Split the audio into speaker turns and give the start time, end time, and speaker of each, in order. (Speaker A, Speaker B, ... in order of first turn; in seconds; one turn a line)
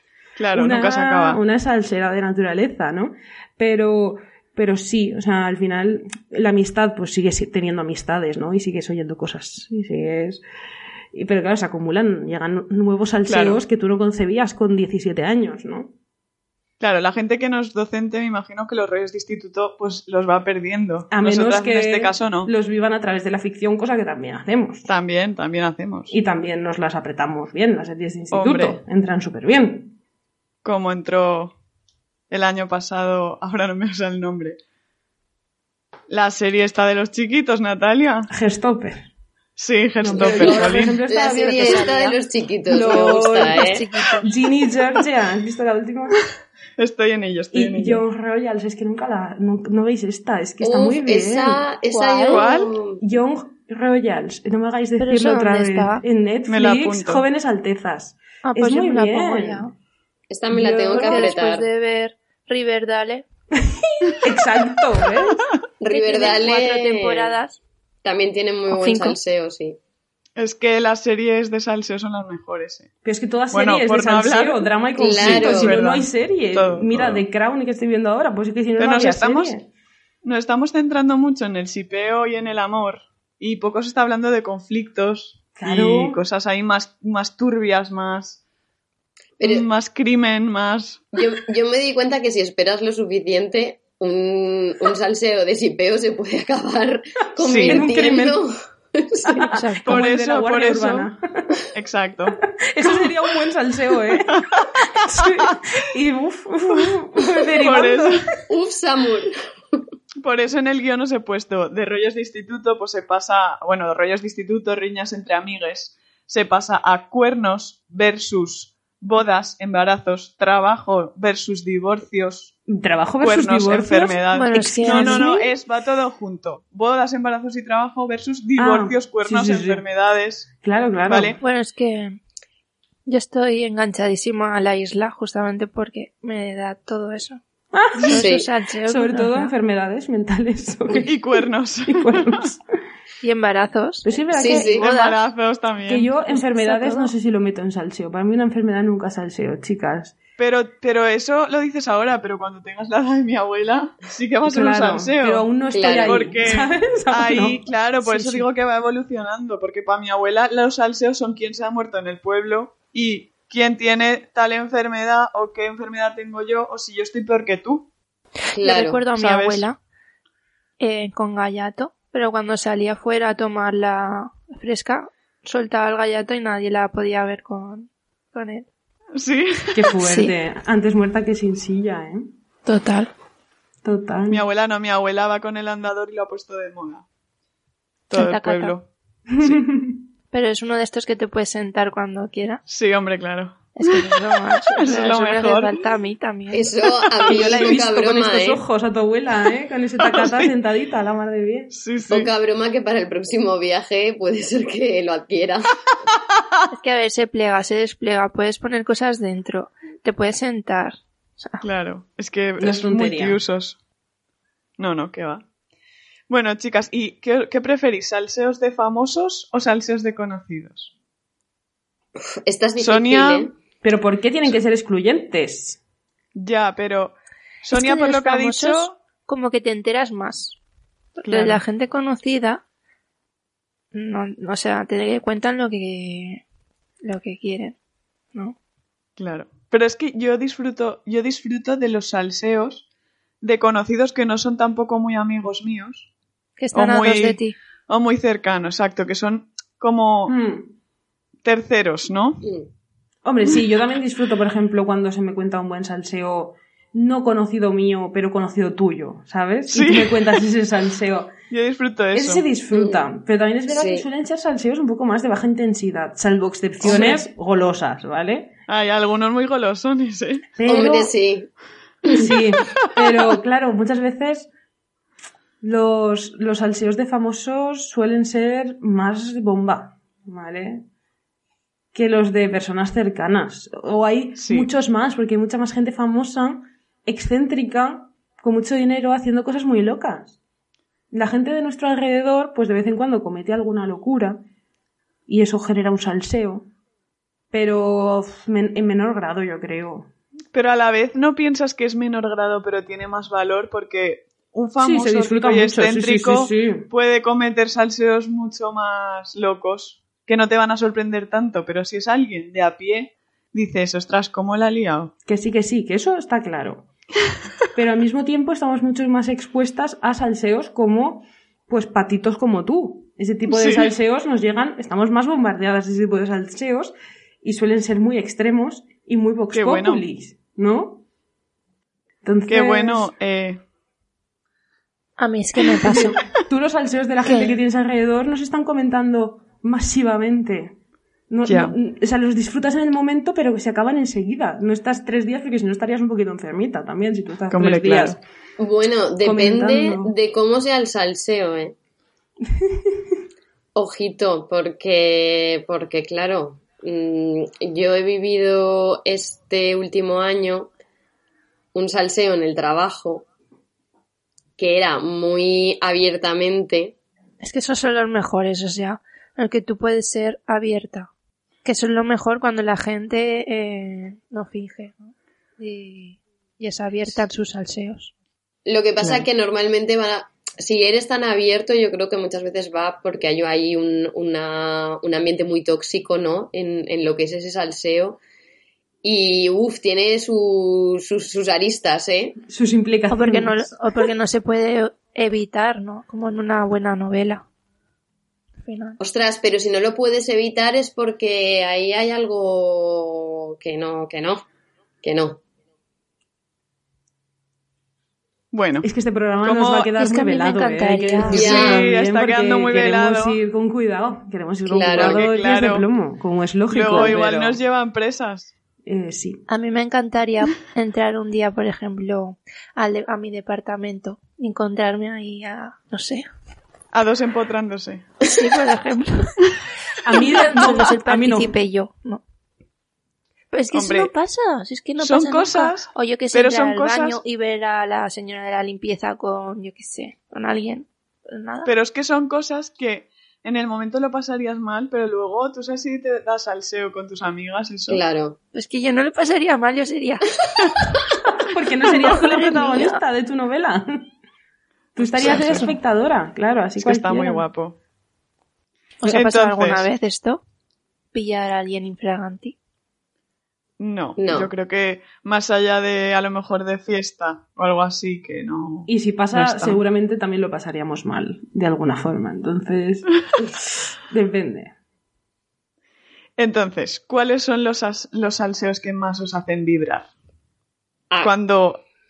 Speaker A: 0.4-1.4
Speaker B: 0.5-10.4
Speaker B: 11.1-15.9
Speaker A: 13.2-13.6
Speaker A: 16.8-22.5
Speaker B: 21.1-24.9
Speaker A: 24.9-26.1
Speaker B: 26.1-29.9
Speaker A: 28.3-28.8
Speaker A: 30.6-31.5
Speaker A: 32.3-34.6
Speaker A: 36.1-38.3
Speaker B: 38.3-39.1
Speaker A: 39.6-41.0
Speaker B: 40.0-42.0
Speaker C: 40.1-43.9
Speaker D: 41.2-42.2
Speaker B: 42.7-46.2
Speaker D: 42.9-44.3
Speaker A: 46.8-48.0
Speaker B: 47.5-51.7
Speaker C: 50.6-53.0
Speaker D: 51.9-52.4
Speaker A: 52.3-52.8
Speaker B: 53.0-59.7
Speaker D: 55.0-56.0
Speaker A: 56.5-57.2
Speaker D: 58.5-59.7
Speaker C: 60.3-61.7
Speaker B: 60.5-61.3
Speaker D: 60.9-63.3
Speaker B: 63.5-65.4
Speaker C: 65.8-67.4
Speaker D: 65.9-67.6
Speaker C: 68.0-69.8
Speaker D: 68.7-69.2
Speaker A: 70.4-72.9
Speaker B: 73.0-79.6
Speaker A: 73.5-77.2
Speaker C: 75.0-75.8
Speaker A: 78.8-79.5
Speaker A: 80.2-88.4
Speaker B: 85.5-86.2
Speaker C: 89.4-89.7
Speaker A: 89.4-91.1
Speaker C: 91.1-99.5
Speaker A: 97.4-97.9
Speaker B: 97.7-98.4
Speaker B: 99.2-101.6
Speaker D: 99.5-100.0
Speaker A: 99.9-101.1
Speaker A: 101.7-102.9
Speaker B: 102.4-108.3
Speaker A: 104.3-105.6
Speaker A: 107.5-108.3
Speaker C: 108.5-109.3
Speaker A: 110.2-122.5
Speaker B: 122.7-125.3
Speaker A: 123.2-130.5
Speaker D: 124.3-125.5
Speaker B: 128.6-129.8
Speaker B: 130.6-131.4
Speaker A: 131.1-131.4
Speaker D: 131.4-132.2
Speaker D: 133.1-137.4
Speaker B: 137.7-138.3
Speaker D: 138.0-139.5
Speaker C: 138.1-138.5
Speaker B: 138.8-141.1
Speaker A: 141.0-142.5
Speaker B: 141.9-142.6
Speaker D: 143.2-145.1
Speaker B: 144.0-145.0
Speaker C: 144.3-144.8
Speaker A: 144.8-146.1
Speaker B: 145.9-150.2
Speaker D: 146.3-147.1
Speaker A: 150.4-167.9
Speaker B: 154.4-158.4
Speaker C: 155.7-156.2
Speaker C: 168.5-169.0
Speaker D: 168.6-169.8
Speaker A: 169.2-169.7
Speaker D: 170.8-178.7
Speaker A: 179.1-179.9
Speaker B: 179.7-182.3
Speaker D: 180.0-180.3
Speaker D: 182.6-183.1
Speaker B: 183.8-184.4
Speaker A: 184.3-187.0
Speaker A: 188.1-188.9
Speaker D: 188.1-188.7
Speaker B: 189.3-190.0
Speaker D: 190.3-192.6
Speaker A: 192.7-194.2
Speaker D: 193.8-197.8
Speaker A: 194.8-195.8
Speaker C: 196.5-198.6
Speaker B: 197.3-201.7
Speaker A: 200.0-200.5
Speaker A: 201.7-202.3
Speaker C: 202.1-205.8
Speaker D: 206.7-211.6
Speaker A: 211.6-213.8
Speaker B: 212.6-213.4
Speaker A: 214.8-215.4
Speaker A: 216.3-220.9
Speaker C: 222.2-223.5
Speaker A: 222.8-223.5
Speaker B: 223.8-225.8
Speaker A: 226.3-228.9
Speaker D: 227.7-230.6
Speaker D: 231.2-232.6
Speaker A: 231.2-231.6
Speaker D: 233.9-236.4
Speaker D: 237.0-237.8
Speaker A: 239.2-242.8
Speaker A: 243.4-246.1
Speaker D: 246.6-247.5
Speaker A: 246.7-250.3
Speaker B: 250.3-250.7
Speaker A: 251.4-252.4
Speaker B: 253.2-261.3
Speaker A: 259.7-260.4
Speaker A: 261.5-262.4
Speaker B: 262.1-268.5
Speaker C: 262.7-263.0
Speaker C: 263.7-264.0
Speaker A: 266.8-267.2
Speaker A: 268.7-270.5
Speaker B: 270.6-271.1
Speaker C: 270.6-271.5
Speaker C: 272.0-272.3
Speaker B: 272.1-274.5
Speaker B: 275.6-280.8
Speaker B: 281.9-290.4
Speaker A: 284.4-284.7
Speaker B: 291.1-294.4
Speaker B: 295.2-296.7
Speaker B: 297.5-300.1
Speaker A: 300.5-315.1
Speaker B: 304.8-306.9
Speaker B: 315.2-316.9
Speaker B: 317.8-331.0
Speaker A: 323.5-323.9
Speaker A: 329.5-330.0
Speaker B: 332.2-333.1
Speaker A: 332.5-333.6
Speaker D: 335.2-336.2
Speaker B: 335.9-340.8
Speaker D: 337.3-337.5
Speaker B: 341.3-348.2
Speaker A: 341.4-341.8
Speaker A: 347.5-348.2
Speaker C: 348.6-351.8
Speaker B: 349.2-350.1
Speaker B: 352.5-353.0
Speaker C: 353.8-360.7
Speaker C: 361.7-363.3
Speaker C: 364.6-366.9
Speaker D: 367.4-371.1
Speaker D: 371.6-378.1
Speaker C: 378.6-388.2
Speaker A: 379.0-379.2
Speaker C: 389.0-392.4
Speaker B: 392.5-393.7
Speaker D: 393.1-397.4
Speaker D: 398.6-399.0
Speaker C: 399.0-404.4
Speaker C: 405.0-405.4
Speaker A: 408.5-408.9
Speaker B: 408.8-417.6
Speaker A: 409.4-409.9
Speaker D: 410.0-411.6
Speaker C: 411.3-411.9
Speaker A: 411.3-413.4
Speaker C: 414.7-415.2
Speaker A: 414.9-415.8
Speaker A: 416.7-418.5
Speaker B: 418.8-419.4
Speaker D: 419.5-426.3
Speaker A: 426.9-428.1
Speaker D: 428.2-429.5
Speaker B: 430.0-431.5
Speaker D: 430.1-432.2
Speaker D: 433.5-441.7
Speaker A: 433.7-434.1
Speaker A: 435.0-437.2
Speaker A: 441.6-448.0
Speaker C: 447.9-448.4
Speaker D: 448.5-450.4
Speaker B: 451.4-454.1
Speaker D: 451.8-453.0
Speaker B: 454.9-457.4
Speaker A: 455.0-455.7
Speaker D: 455.4-455.8
Speaker A: 456.8-457.8
Speaker D: 459.0-460.4
Speaker A: 459.0-459.9
Speaker D: 461.1-462.5
Speaker A: 463.8-469.8
Speaker C: 464.2-464.5
Speaker B: 468.9-473.1
Speaker B: 474.1-474.7
Speaker A: 476.4-480.1
Speaker A: 481.2-481.8